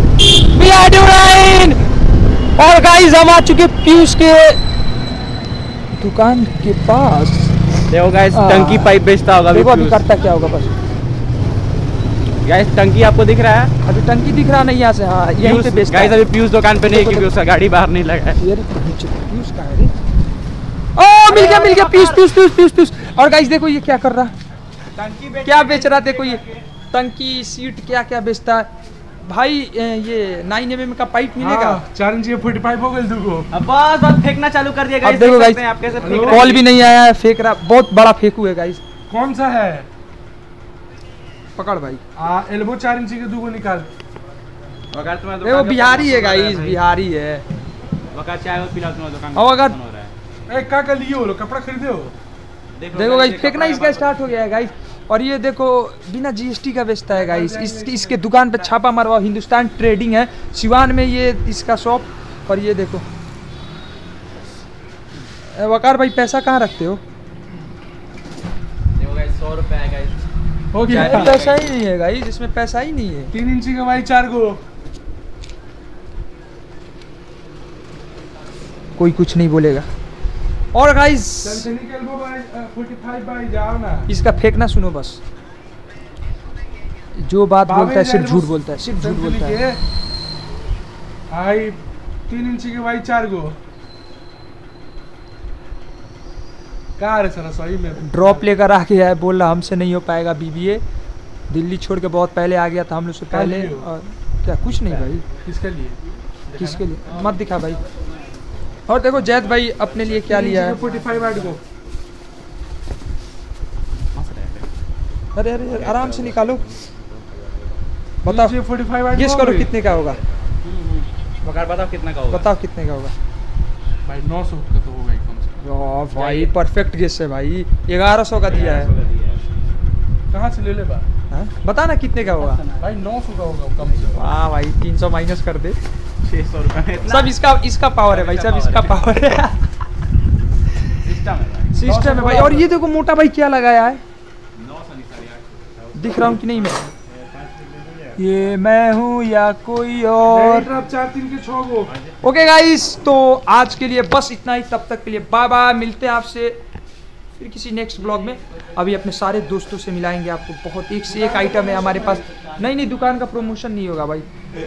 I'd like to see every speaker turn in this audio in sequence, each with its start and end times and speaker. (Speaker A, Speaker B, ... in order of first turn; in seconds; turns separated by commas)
Speaker A: 0.5-1.8, Speaker A: 2.6-4.6, Speaker A: 6.0-7.5, Speaker B: 7.9-10.0, Speaker A: 8.3-8.9, Speaker A: 9.5-10.7, Speaker B: 12.4-13.7, Speaker A: 13.9-16.2, Speaker B: 15.4-18.4, Speaker A: 16.9-17.3, Speaker A: 18.4-19.9, Speaker A: 21.0-24.3, Speaker B: 21.3-22.2, Speaker B: 25.0-26.6, Speaker A: 25.4-26.4, Speaker A: 26.9-28.7, Speaker A: 29.2-31.8, Speaker C: 31.4-33.5, Speaker B: 33.5-36.6, Speaker A: 35.0-35.6, Speaker C: 36.0-36.5, Speaker A: 36.3-38.8, Speaker C: 39.1-39.9, Speaker A: 41.6-42.0, Speaker C: 42.2-43.9, Speaker B: 44.9-46.8, Speaker A: 45.4-47.4, Speaker B: 48.1-50.1, Speaker A: 49.4-49.8, Speaker C: 50.5-52.1, Speaker B: 52.7-54.2, Speaker A: 52.9-63.0, Speaker C: 57.1-58.2, Speaker A: 65.5-67.0, Speaker B: 69.0-70.2, Speaker C: 70.7-71.4, Speaker B: 70.9-71.7, Speaker A: 70.9-73.3, Speaker C: 73.3-74.6, Speaker A: 79.0-79.9, Speaker A: 80.7-81.7, Speaker C: 81.4-84.1, Speaker A: 84.1-85.2, Speaker A: 87.2-89.6, Speaker C: 87.7-89.8, Speaker C: 91.3-93.6, Speaker C: 97.0-98.4, Speaker A: 98.0-100.8, Speaker A: 101.5-105.2, Speaker C: 103.3-103.9, Speaker C: 105.4-106.8, Speaker A: 106.6-107.8, Speaker A: 108.9-110.8, Speaker B: 109.2-111.5, Speaker C: 110.2-111.6, Speaker B: 114.1-114.7, Speaker A: 115.3-116.6, Speaker B: 115.7-117.8, Speaker C: 118.2-119.8, Speaker A: 118.2-118.5, Speaker A: 119.1-120.2, Speaker B: 119.8-122.5, Speaker A: 122.3-123.1, Speaker C: 124.0-125.6, Speaker A: 125.6-128.9, Speaker B: 126.1-126.5, Speaker B: 128.5-129.4, Speaker C: 130.3-131.1, Speaker A: 131.3-132.6, Speaker B: 132.4-132.8, Speaker C: 132.8-134.3, Speaker B: 133.8-134.3, Speaker A: 134.2-135.8, Speaker B: 136.2-137.3, Speaker A: 137.1-139.6, Speaker B: 138.1-139.0, Speaker B: 141.0-141.8, Speaker A: 141.7-144.0, Speaker C: 141.8-142.7, Speaker B: 144.6-148.4, Speaker A: 145.9-146.8, Speaker A: 148.2-150.7, Speaker C: 150.3-151.9, Speaker A: 152.2-156.6, Speaker A: 157.4-164.3, Speaker C: 161.1-162.2